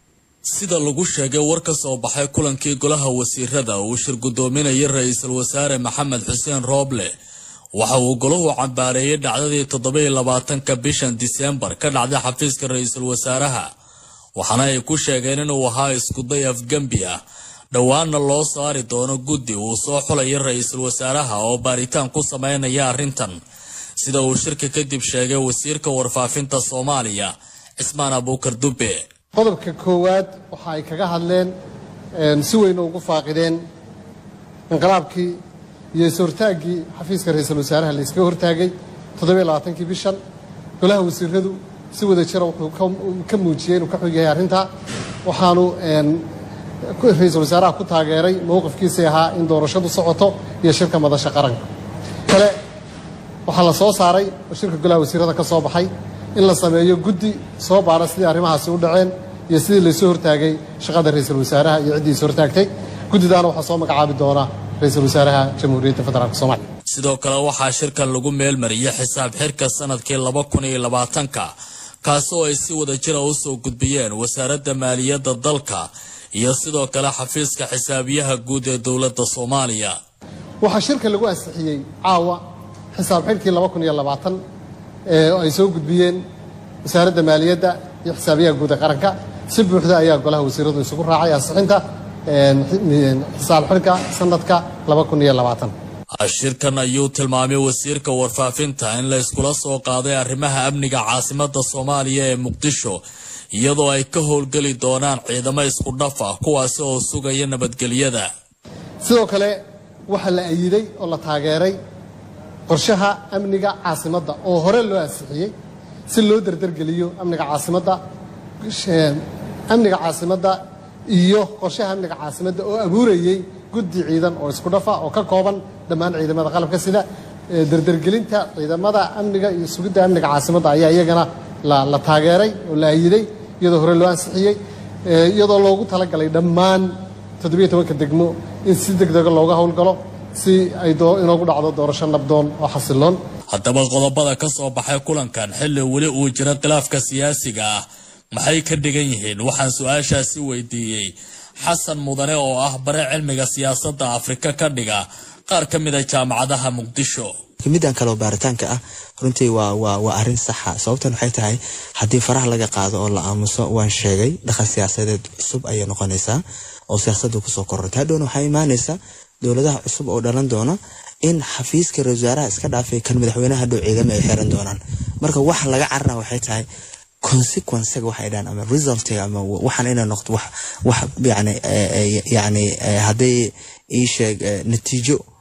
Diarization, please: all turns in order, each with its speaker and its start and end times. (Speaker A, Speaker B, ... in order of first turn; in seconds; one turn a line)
Speaker A: 0.5-7.1
Speaker A: 7.8-13.7
Speaker A: 14.3-17.2
Speaker A: 17.7-23.4
Speaker A: 24.0-29.0
Speaker B: 29.3-31.5
Speaker B: 32.1-33.6
Speaker B: 34.7-35.4
Speaker B: 35.9-40.2
Speaker B: 40.8-44.7
Speaker B: 45.2-46.2
Speaker B: 47.0-51.6
Speaker B: 52.3-52.5
Speaker B: 53.5-66.6
Speaker A: 66.9-71.5
Speaker A: 72.0-80.0
Speaker B: 80.6-82.4
Speaker B: 82.9-84.4
Speaker B: 85.1-86.2
Speaker B: 86.8-95.7
Speaker A: 96.2-103.0
Speaker A: 103.5-108.3
Speaker B: 109.0-109.6
Speaker B: 110.1-111.7
Speaker B: 112.7-115.5
Speaker B: 116.1-118.0
Speaker B: 118.6-120.6
Speaker B: 121.1-143.2
Speaker A: 143.5-157.3
Speaker C: 157.6-176.7
Speaker C: 177.2-185.2